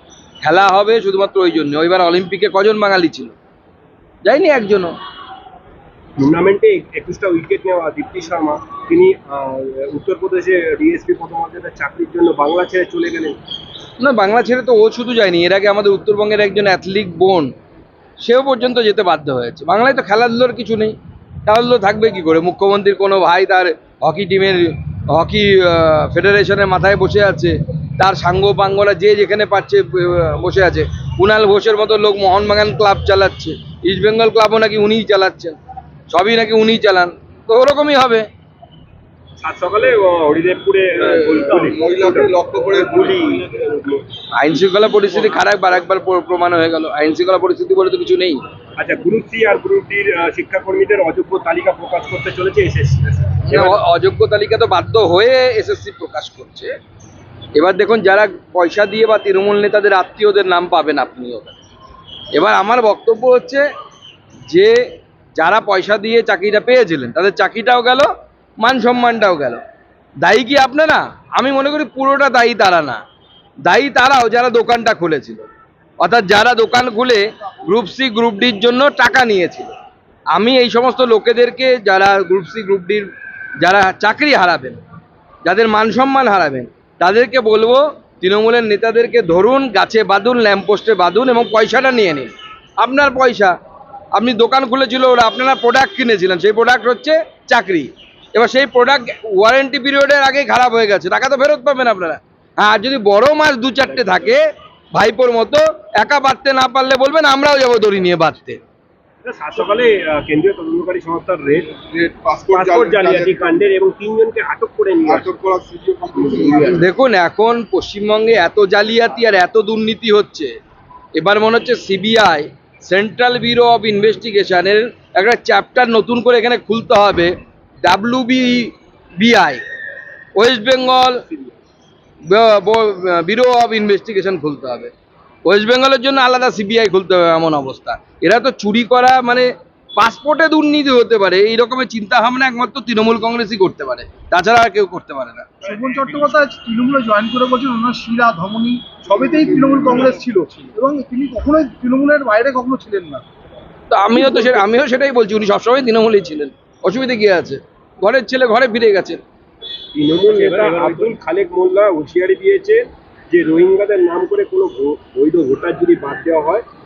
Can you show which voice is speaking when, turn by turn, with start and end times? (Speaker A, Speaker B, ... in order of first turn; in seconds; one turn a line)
Speaker A: 0.4-3.3
Speaker A: 4.2-5.0
Speaker B: 6.2-13.4
Speaker A: 14.0-17.5
Speaker A: 18.2-35.5
Speaker A: 36.1-38.2
Speaker B: 39.4-44.0
Speaker C: 41.2-43.2
Speaker A: 44.3-48.4
Speaker B: 48.8-53.8
Speaker A: 53.5-56.7
Speaker A: 57.5-61.6
Speaker A: 62.3-63.6
Speaker A: 64.5-64.8
Speaker A: 65.4-68.1
Speaker A: 68.6-69.6
Speaker A: 70.2-73.0
Speaker A: 73.6-75.5
Speaker A: 76.0-79.7
Speaker A: 80.3-83.1
Speaker A: 83.6-84.8
Speaker A: 85.4-93.5
Speaker A: 94.1-108.6
Speaker B: 103.8-104.3
Speaker B: 109.2-111.8
Speaker C: 111.8-113.7
Speaker B: 112.5-115.3
Speaker C: 115.0-116.8
Speaker B: 116.1-116.8
Speaker A: 116.7-120.5
Speaker A: 121.2-127.3
Speaker A: 127.8-129.6
Speaker A: 130.3-131.2
Speaker A: 132.2-134.9
Speaker A: 135.4-145.5
Speaker D: 145.7-153.2
Speaker B: 145.8-146.3
Speaker C: 149.1-150.7
Speaker A: 153.9-159.2
Speaker B: 159.9-166.6